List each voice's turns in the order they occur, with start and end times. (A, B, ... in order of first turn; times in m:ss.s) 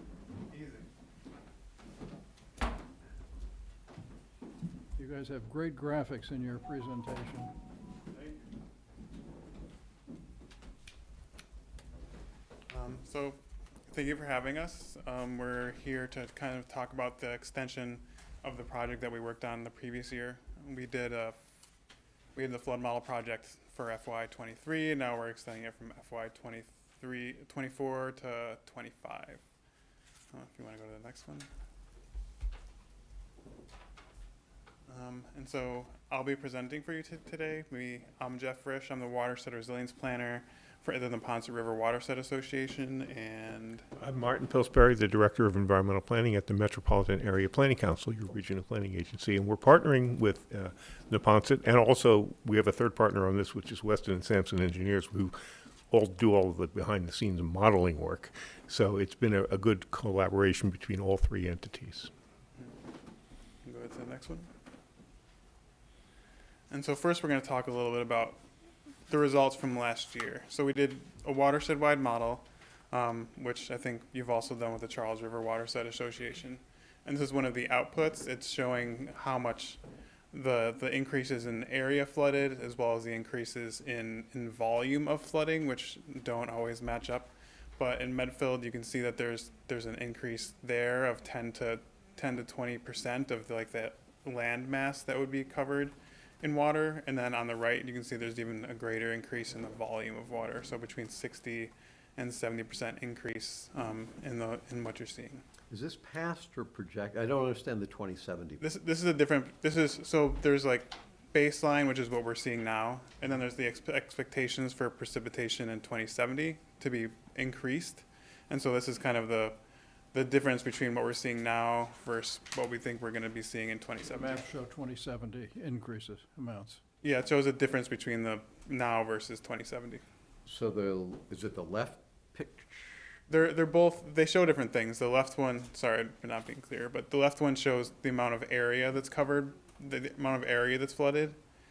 0:00.5-0:00.9 A
0:05.0-0:07.5 B
0:08.1-0:08.5 A
0:12.7-0:21.4 A
0:22.3-0:29.4 A
0:30.3-0:31.5 A
0:34.9-0:43.9 A
0:44.0-0:55.4 C
0:55.9-1:02.1 C
1:03.6-1:04.5 A
1:06.7-1:08.4 A
1:09.1-1:19.8 A
1:20.3-1:45.4 A
1:45.7-1:48.6 D
1:48.6-1:59.6 A
2:00.1-2:04.4 A
2:04.1-2:06.8 B
2:07.0-2:10.0 A
2:10.4-2:13.2 D
2:13.3-2:21.4 A